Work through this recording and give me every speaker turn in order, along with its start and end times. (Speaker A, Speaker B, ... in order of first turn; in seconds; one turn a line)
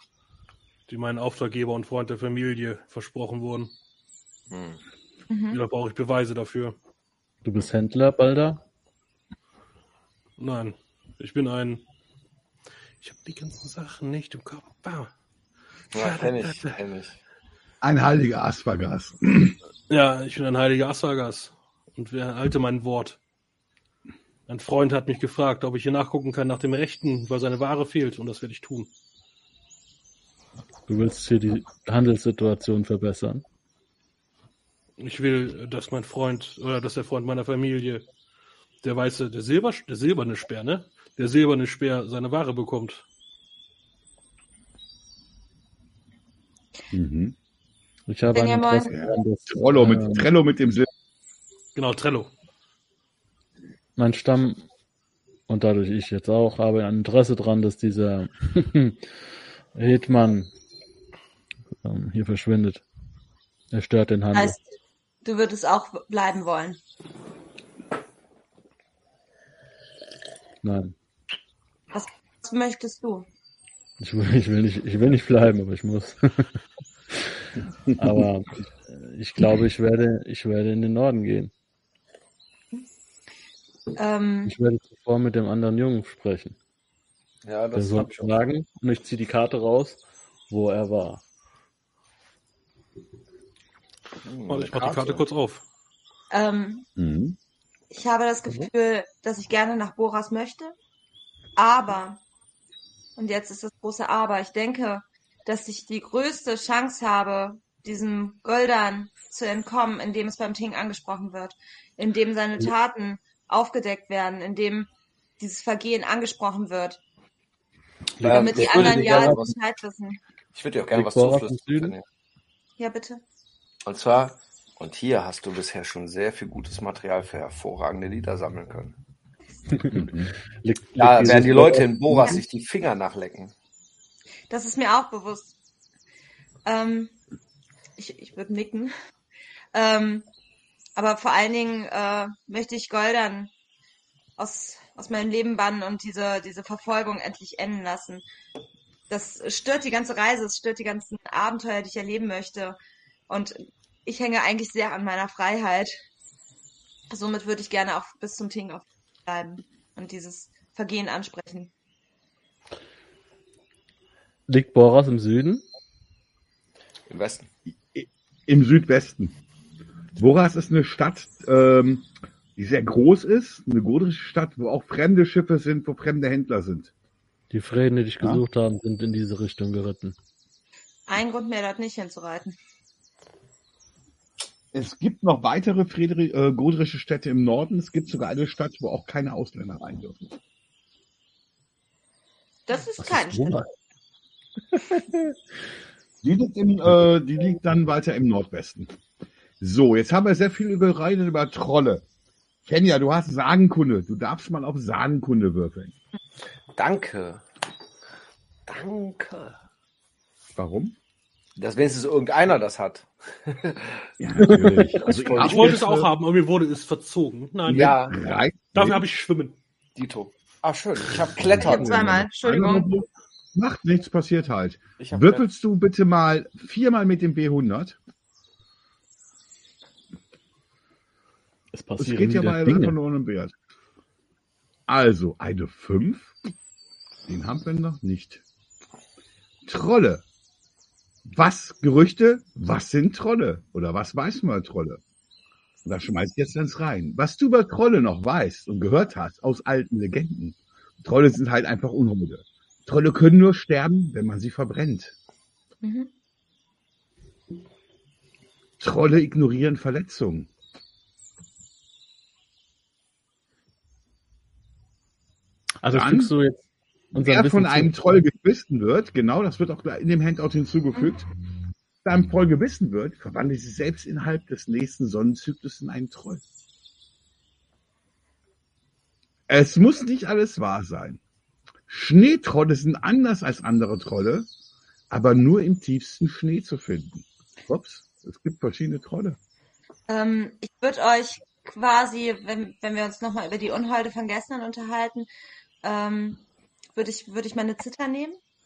Speaker A: 0.9-3.7
Speaker B: 4.5-4.8
Speaker C: 5.3-5.6
Speaker A: 5.5-6.8
Speaker D: 7.4-8.6
Speaker A: 10.4-11.8
Speaker A: 13.0-15.1
Speaker A: 15.9-16.7
Speaker B: 15.9-17.2
Speaker E: 17.8-19.6
Speaker A: 19.9-23.2
Speaker A: 24.5-28.9
Speaker D: 30.9-33.4
Speaker A: 35.0-38.1
Speaker A: 38.8-43.1
Speaker E: 46.9-47.4
Speaker D: 48.1-50.3
Speaker C: 48.3-48.9
Speaker E: 48.9-50.9
Speaker A: 51.8-52.3
Speaker D: 54.0-54.6
Speaker D: 55.5-59.1
Speaker D: 59.7-60.5
Speaker D: 61.8-62.8
Speaker D: 63.7-64.6
Speaker C: 64.3-64.6
Speaker C: 65.2-66.8
Speaker D: 70.6-71.0
Speaker C: 71.9-73.3
Speaker D: 74.0-76.6
Speaker D: 77.1-77.4
Speaker E: 77.9-78.2
Speaker D: 78.0-81.5
Speaker C: 84.0-84.5
Speaker D: 84.5-86.6
Speaker B: 87.4-88.4
Speaker D: 87.8-91.2
Speaker B: 94.2-95.3
Speaker A: 94.5-95.6
Speaker C: 96.3-96.9
Speaker E: 97.0-97.4
Speaker C: 97.9-100.8
Speaker C: 101.6-102.2
Speaker C: 103.2-114.9
Speaker C: 115.4-117.0
Speaker D: 118.2-119.5
Speaker B: 118.2-119.5
Speaker C: 118.2-120.2
Speaker B: 120.5-122.0
Speaker D: 120.9-121.9
Speaker C: 122.8-123.2
Speaker B: 123.9-128.9
Speaker D: 129.7-132.2
Speaker E: 129.9-130.3
Speaker B: 131.0-133.5
Speaker E: 131.2-131.8
Speaker C: 134.5-135.5
Speaker C: 136.7-137.1
Speaker C: 138.0-138.9
Speaker C: 139.7-140.3
Speaker C: 141.0-143.5
Speaker C: 144.4-148.2
Speaker C: 149.1-152.8
Speaker C: 153.3-156.0
Speaker C: 157.1-161.7
Speaker D: 164.5-165.6
Speaker B: 167.1-167.5
Speaker E: 167.9-169.3
Speaker E: 170.2-176.9
Speaker D: 177.5-180.2
Speaker C: 181.1-182.6
Speaker E: 184.7-190.4
Speaker C: 192.7-193.6
Speaker D: 193.0-193.7
Speaker D: 194.8-195.4
Speaker E: 196.2-199.0
Speaker E: 199.6-202.0
Speaker E: 202.7-205.9
Speaker B: 206.8-207.4
Speaker B: 208.7-209.6
Speaker E: 210.6-210.9
Speaker B: 211.6-214.1
Speaker E: 214.2-216.1
Speaker D: 214.4-215.8
Speaker A: 215.4-218.0
Speaker E: 217.7-219.0
Speaker B: 217.7-218.2
Speaker A: 218.8-219.6
Speaker B: 220.0-222.2
Speaker E: 221.4-228.0
Speaker C: 221.6-222.9
Speaker B: 225.0-225.4
Speaker D: 231.7-233.0
Speaker E: 232.0-233.5
Speaker E: 234.9-236.4
Speaker E: 237.3-238.4
Speaker E: 239.7-240.2
Speaker E: 241.3-245.0
Speaker E: 245.8-255.1
Speaker C: 255.8-256.1
Speaker E: 258.8-260.5
Speaker D: 265.8-268.2
Speaker E: 265.9-266.3
Speaker E: 267.1-271.3
Speaker E: 272.0-276.4
Speaker E: 279.5-281.2
Speaker E: 281.9-284.5
Speaker E: 285.1-289.4
Speaker C: 290.1-295.3
Speaker C: 295.8-296.4
Speaker C: 296.9-298.4